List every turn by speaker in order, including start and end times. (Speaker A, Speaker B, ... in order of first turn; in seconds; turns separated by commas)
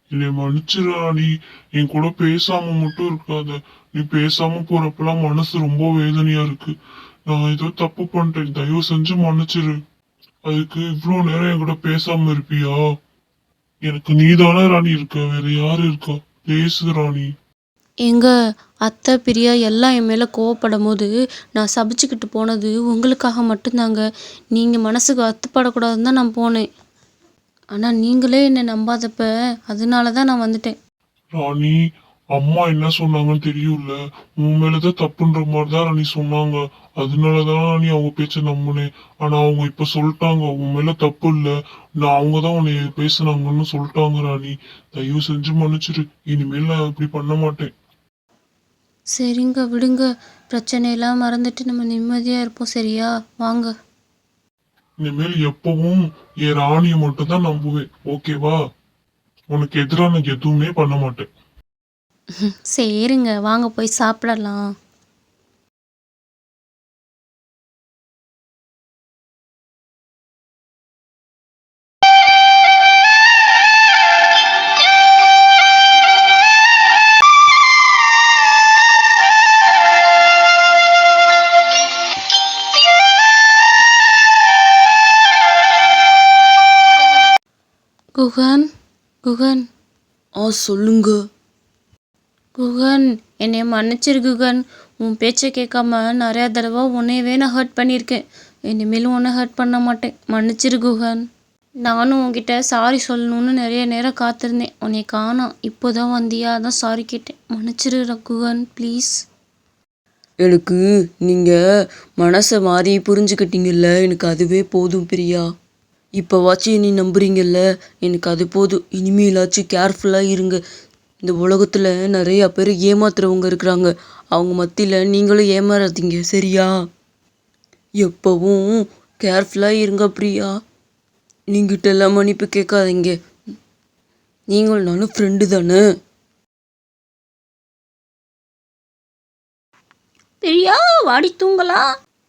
Speaker A: 0.1-6.7, Speaker A: 7.3-9.7, Speaker A: 10.4-12.8, Speaker A: 13.8-17.3, Speaker B: 18.8-24.0, Speaker B: 24.5-26.6, Speaker B: 27.7-30.8, Speaker A: 31.4-31.8, Speaker A: 32.3-47.7, Speaker B: 49.2-53.7, Speaker A: 55.0-58.6, Speaker A: 59.5-61.2, Speaker B: 62.4-64.6, Speaker B: 88.2-88.7, Speaker B: 89.2-89.6, Speaker C: 90.4-91.2, Speaker B: 92.6-101.2, Speaker B: 101.8-109.1, Speaker C: 110.4-111.6, Speaker C: 112.2-115.5, Speaker C: 116.2-120.6, Speaker C: 121.2-126.7, Speaker C: 128.0-130.5, Speaker C: 131.5-133.1, Speaker C: 134.5-135.8, Speaker B: 140.4-141.9